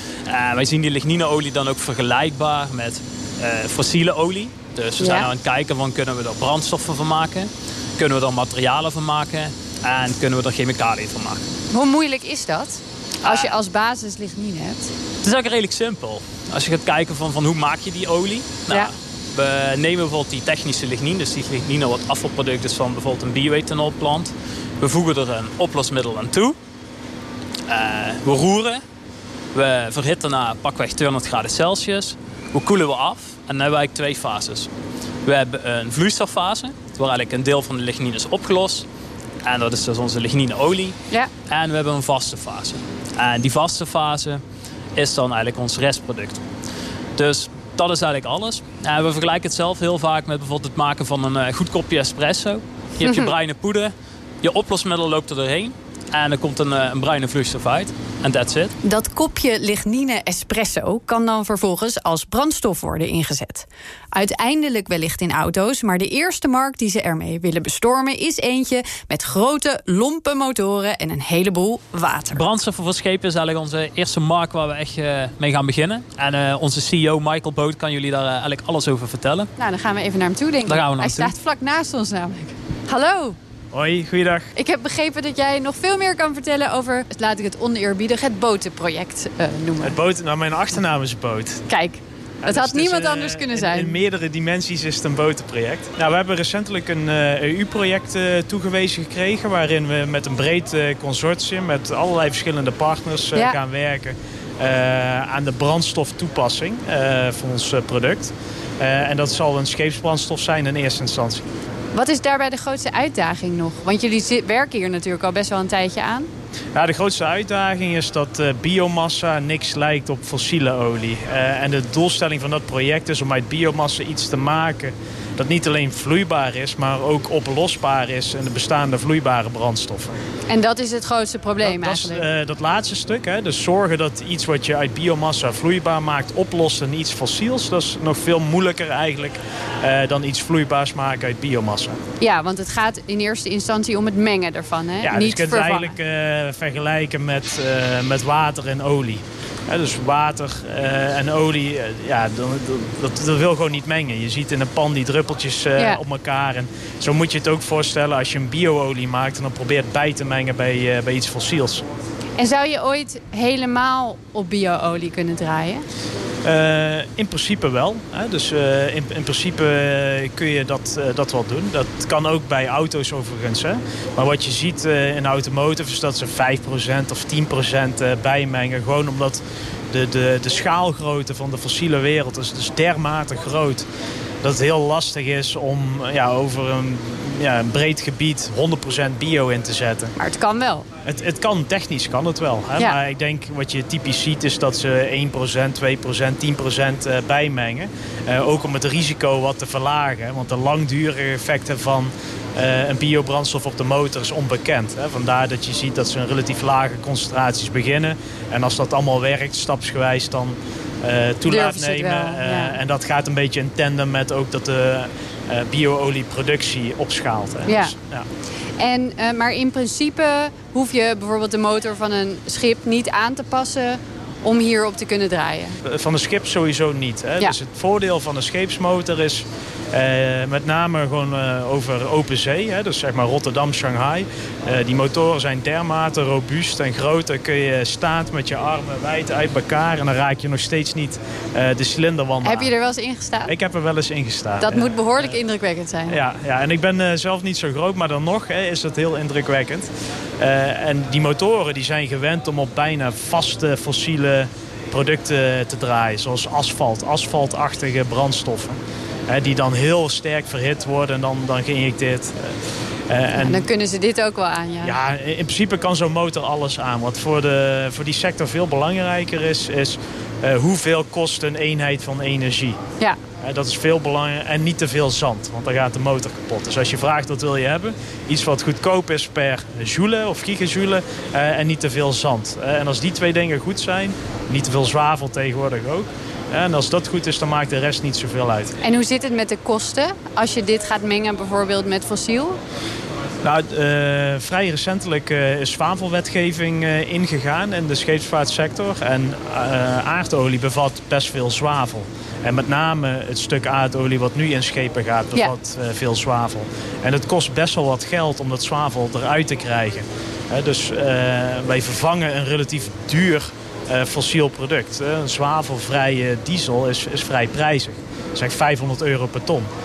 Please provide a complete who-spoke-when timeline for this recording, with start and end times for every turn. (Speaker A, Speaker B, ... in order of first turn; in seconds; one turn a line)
Speaker A: 0.3-11.4
Speaker B: 5.0-5.3
Speaker B: 11.7-14.9
Speaker A: 13.2-13.5
Speaker A: 15.2-26.6
Speaker A: 27.7-28.8
Speaker A: 29.5-34.7
Speaker A: 35.2-38.9
Speaker A: 39.4-41.0
Speaker A: 41.5-44.4
Speaker A: 45.0-46.4
Speaker A: 47.1-58.8
Speaker B: 53.0-53.3
Speaker B: 58.8-72.4
Speaker A: 72.3-79.5
Speaker B: 79.6-83.4
Speaker A: 80.7-81.3
Speaker C: 83.7-84.5
Speaker B: 84.5-90.0
Speaker C: 89.8-91.7
Speaker B: 91.7-94.0
Speaker C: 92.4-111.5
Speaker B: 111.9-116.3
Speaker C: 116.7-130.2
Speaker B: 130.5-132.2
Speaker C: 131.6-142.0
Speaker B: 142.2-145.9
Speaker C: 145.0-161.8
Speaker B: 162.4-165.8
Speaker C: 166.4-183.9
Speaker C: 184.4-190.1
Speaker B: 190.2-190.9
Speaker C: 191.1-218.3
Speaker B: 211.5-212.8
Speaker B: 217.7-217.9
Speaker B: 218.8-225.8
Speaker C: 225.8-242.7
Speaker B: 242.4-243.5
Speaker C: 243.5-245.3
Speaker B: 244.6-246.2
Speaker C: 246.1-262.4
Speaker C: 263.1-263.6
Speaker B: 263.3-265.0
Speaker C: 264.8-272.8
Speaker C: 273.4-288.7
Speaker B: 288.8-292.6
Speaker C: 293.4-319.7